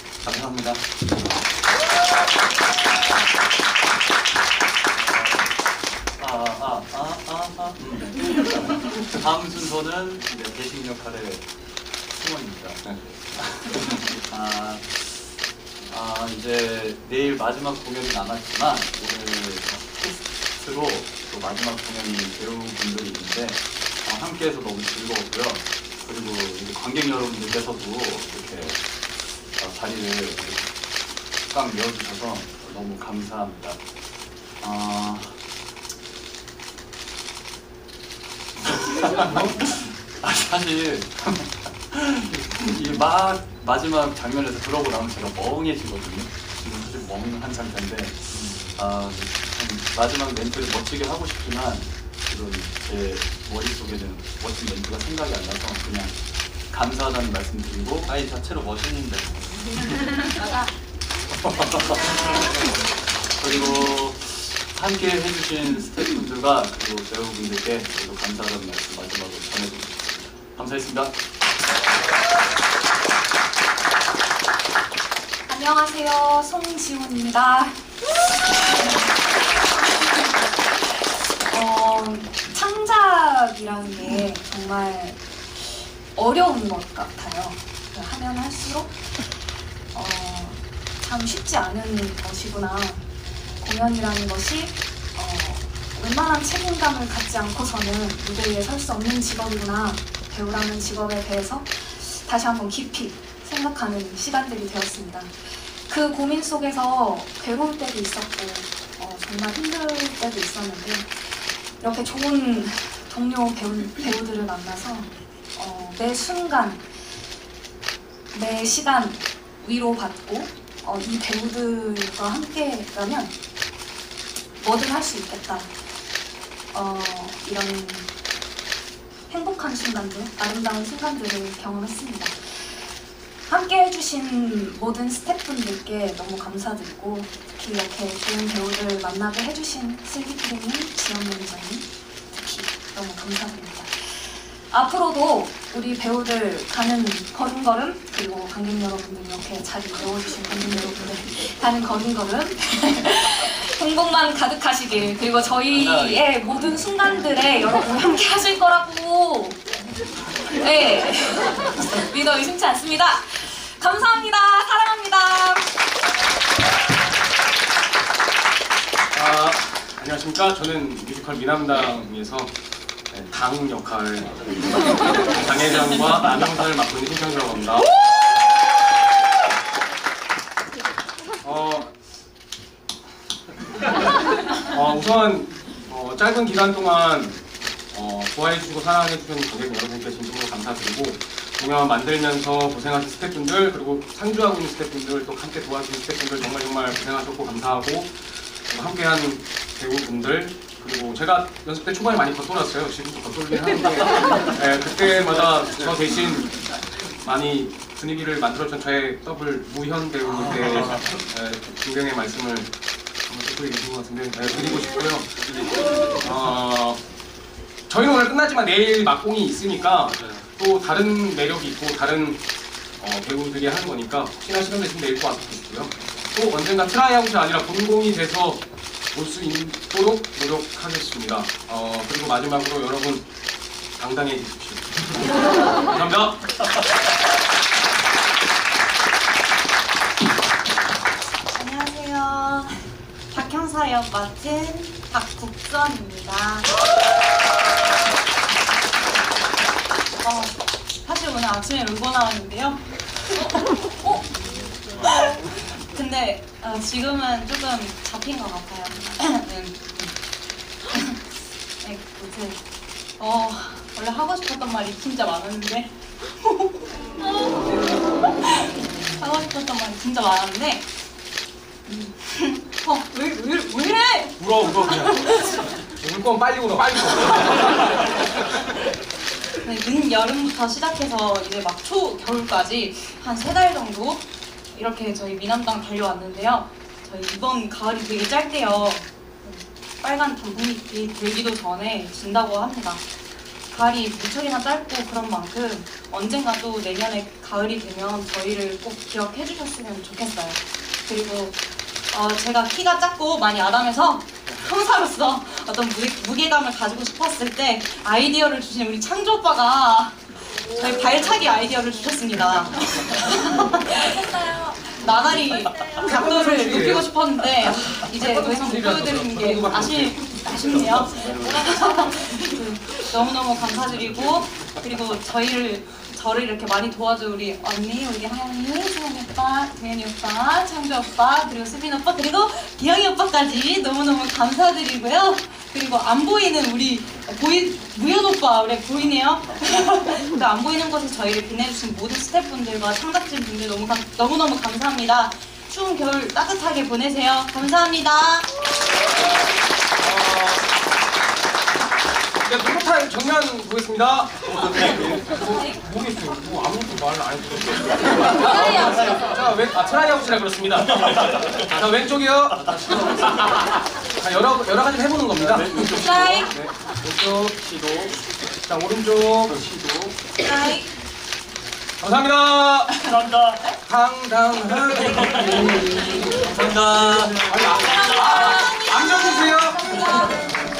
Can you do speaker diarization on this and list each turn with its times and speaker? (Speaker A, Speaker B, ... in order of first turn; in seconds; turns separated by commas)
Speaker A: 0.2-0.8, Speaker B: 5.1-5.5, Speaker B: 6.2-11.5, Speaker B: 12.1-15.3, Speaker B: 15.8-28.9, Speaker B: 29.4-30.7, Speaker B: 31.5-33.8, Speaker B: 34.6-35.4, Speaker B: 38.6-56.1, Speaker B: 56.7-58.1, Speaker A: 58.1-59.8, Speaker B: 61.3-62.5, Speaker B: 63.4-71.2, Speaker C: 75.5-77.9, Speaker C: 81.3-93.0, Speaker C: 93.6-117.0, Speaker C: 118.3-123.3, Speaker C: 124.6-125.7, Speaker C: 126.7-128.1, Speaker C: 129.3-132.8, Speaker C: 133.5-159.6, Speaker A: 155.7-156.2, Speaker C: 160.5-165.8, Speaker D: 169.1-172.5, Speaker D: 173.1-177.9, Speaker D: 181.4-181.9, Speaker D: 184.7-198.2, Speaker D: 198.7-212.7, Speaker D: 213.3-215.5, Speaker D: 216.1-217.0, Speaker D: 217.9-222.4, Speaker D: 223.0-233.2, Speaker D: 234.0-235.1, Speaker D: 235.8-236.5, Speaker E: 241.5-242.8, Speaker E: 243.3-246.7, Speaker E: 250.2-254.3, Speaker E: 255.0-260.1, Speaker E: 260.9-261.2, Speaker E: 261.8-262.6, Speaker E: 263.2-270.9, Speaker E: 271.9-274.4, Speaker D: 274.4-278.1, Speaker E: 275.0-275.6, Speaker E: 279.6-293.0, Speaker E: 293.7-348.5, Speaker D: 316.0-317.1, Speaker D: 317.6-320.3, Speaker D: 350.0-350.7, Speaker D: 352.4-366.7, Speaker E: 358.5-359.1, Speaker B: 362.6-363.3, Speaker B: 365.4-368.1, Speaker E: 365.9-366.5, Speaker D: 368.6-369.6, Speaker B: 369.5-370.2, Speaker E: 370.4-370.9, Speaker D: 372.0-373.2, Speaker B: 373.1-373.6, Speaker D: 373.7-376.5, Speaker B: 376.3-377.6, Speaker D: 377.4-380.3, Speaker E: 377.8-380.3